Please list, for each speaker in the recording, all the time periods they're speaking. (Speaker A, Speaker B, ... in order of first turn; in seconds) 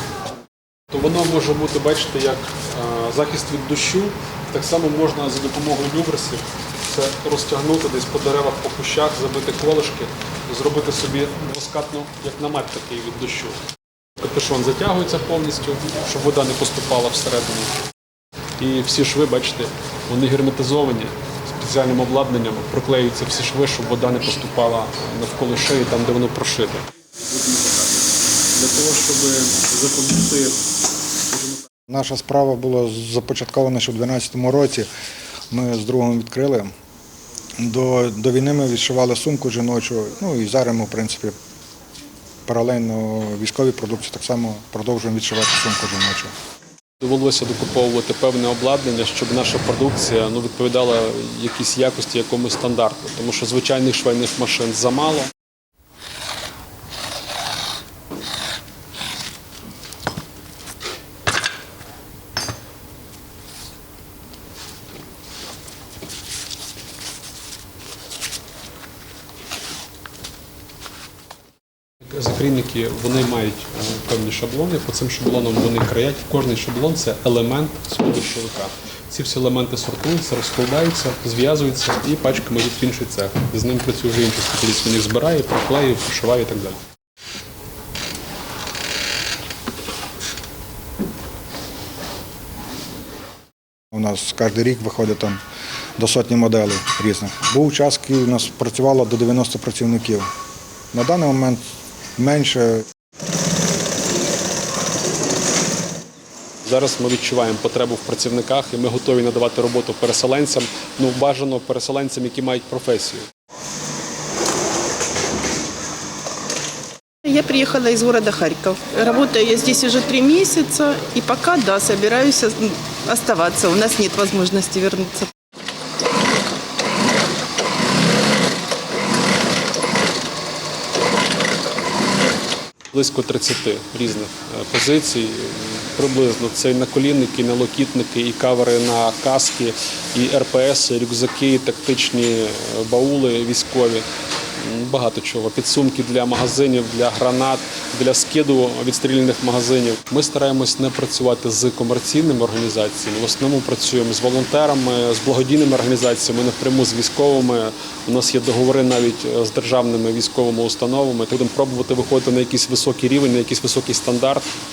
Speaker A: 0.9-13.6, 14.2-17.7, 18.6-30.6, 31.3-31.6, 47.0-55.3, 72.1-86.8, 106.6-113.3, 132.9-164.5
Speaker B: 31.9-34.9, 35.5-36.7, 37.6-41.3, 42.5-46.3, 93.9-95.4, 96.0-100.2, 100.9-101.6, 102.2-102.8
Speaker C: 117.2-125.3